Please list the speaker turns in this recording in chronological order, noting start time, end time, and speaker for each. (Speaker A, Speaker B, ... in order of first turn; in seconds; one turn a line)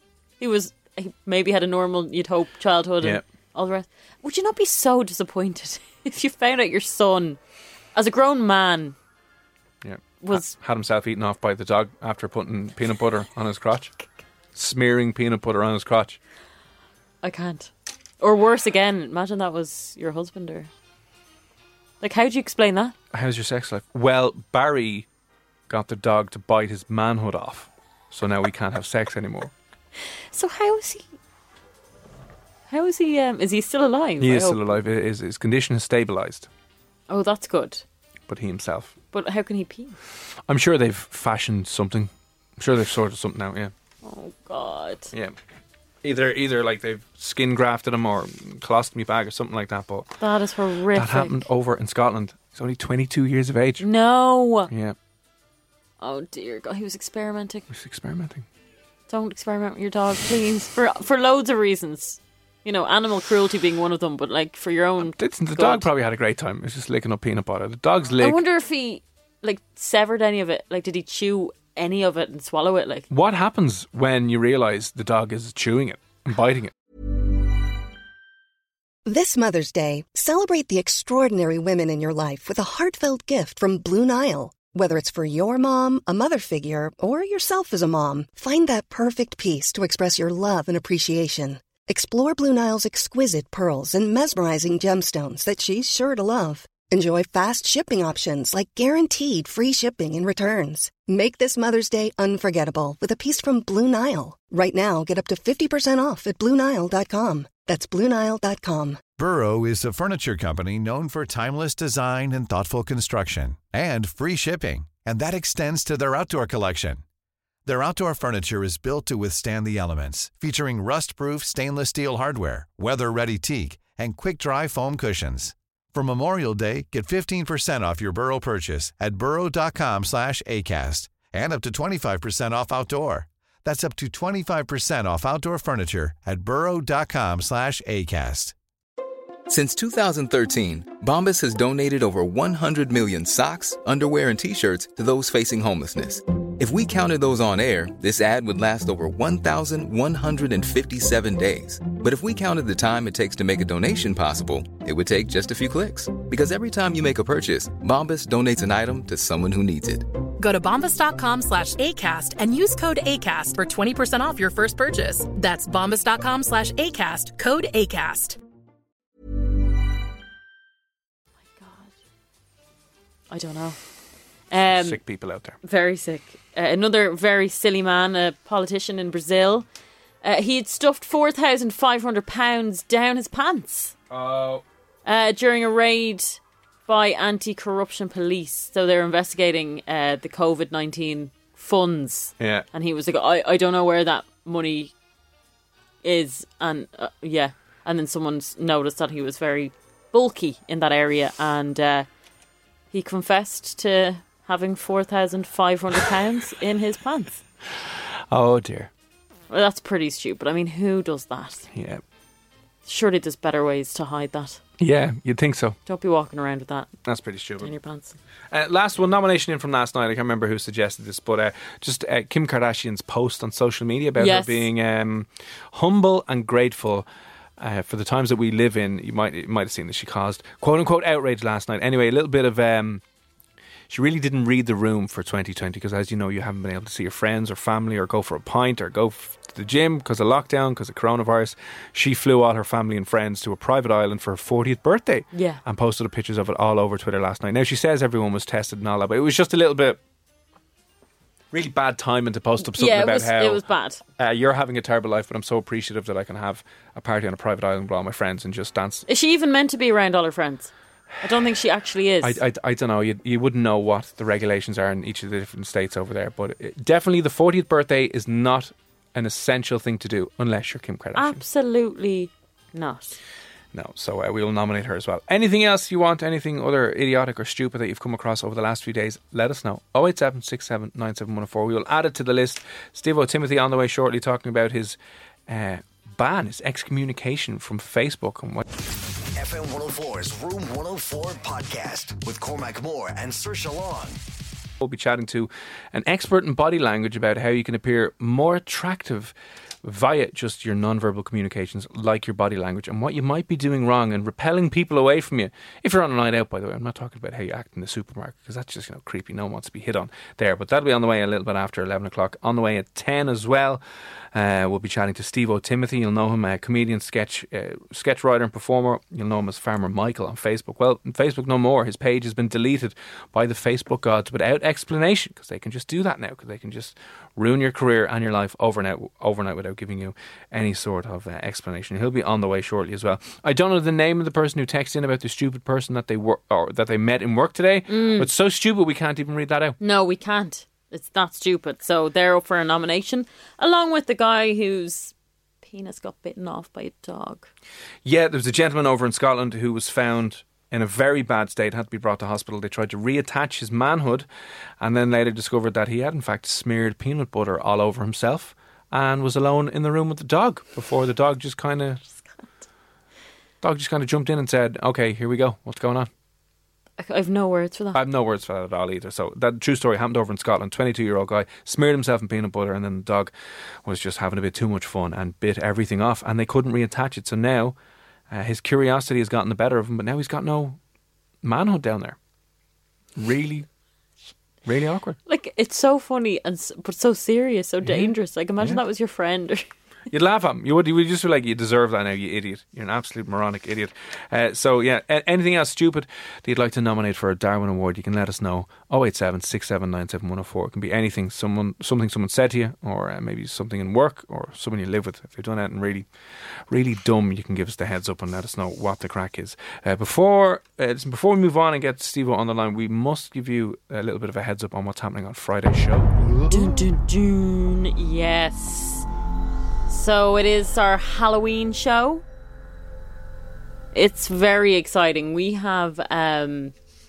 Speaker A: 0.4-7.4
Speaker A: 7.9-8.9
Speaker B: 9.8-13.9
Speaker A: 10.2-10.5
Speaker B: 14.5-16.2
Speaker A: 17.2-20.7
Speaker A: 22.0-22.9
Speaker B: 23.1-25.1
Speaker B: 25.7-29.5
Speaker A: 30.3-31.1
Speaker A: 32.7-34.8
Speaker B: 34.2-36.5
Speaker A: 37.1-37.8
Speaker B: 38.3-38.9
Speaker A: 39.1-40.0
Speaker B: 40.5-43.7
Speaker A: 44.0-45.1
Speaker B: 46.0-50.1
Speaker A: 50.2-51.4
Speaker B: 50.9-53.8
Speaker A: 53.8-54.7
Speaker B: 54.7-55.0
Speaker A: 56.0-57.6
Speaker B: 57.7-58.4
Speaker A: 59.1-65.9
Speaker B: 65.0-68.4
Speaker A: 68.2-73.1
Speaker B: 73.1-76.7
Speaker C: 79.0-109.1
Speaker D: 109.2-117.0
Speaker D: 117.6-138.5
Speaker E: 139.5-160.1
Speaker F: 160.4-168.4
Speaker A: 171.5-171.9
Speaker A: 173.3-173.8
Speaker A: 174.5-175.0
Speaker B: 174.7-175.6
Speaker A: 175.6-179.7
Speaker A: 180.2-183.9
Speaker B: 184.1-184.6
Speaker A: 185.0-194.9
Speaker B: 192.4-192.7
Speaker A: 196.0-202.1
Speaker A: 202.9-207.4
Speaker B: 208.3-208.9
Speaker A: 209.5-211.7
Speaker B: 211.7-212.0
Speaker A: 212.8-214.6
Speaker B: 214.8-215.8
Speaker A: 215.8-216.9
Speaker B: 217.0-217.7
Speaker A: 217.6-218.2
Speaker B: 218.5-227.1
Speaker A: 224.2-224.7
Speaker B: 227.6-233.0
Speaker B: 233.9-250.0
Speaker A: 245.3-245.6
Speaker B: 251.5-253.6
Speaker A: 252.6-254.0
Speaker B: 254.2-259.0
Speaker A: 259.1-260.7
Speaker A: 261.2-262.4
Speaker B: 262.2-271.4
Speaker A: 271.1-273.2
Speaker B: 273.7-285.0
Speaker B: 285.5-288.6
Speaker G: 289.3-294.2
Speaker B: 294.8-299.3
Speaker B: 299.8-313.8
Speaker B: 314.3-339.8
Speaker A: 337.9-338.3
Speaker A: 339.8-347.5
Speaker B: 348.0-354.2
Speaker B: 354.8-362.0
Speaker B: 363.6-366.1
Speaker A: 367.0-368.0
Speaker B: 367.9-373.3
Speaker B: 373.8-377.7
Speaker B: 378.3-380.8
Speaker B: 381.4-382.2
Speaker B: 383.1-383.6
Speaker B: 384.6-385.2
Speaker A: 385.2-389.7
Speaker B: 387.8-388.8
Speaker B: 390.1-406.1
Speaker B: 406.7-416.2
Speaker A: 416.5-419.1
Speaker A: 419.9-422.2
Speaker A: 423.9-426.7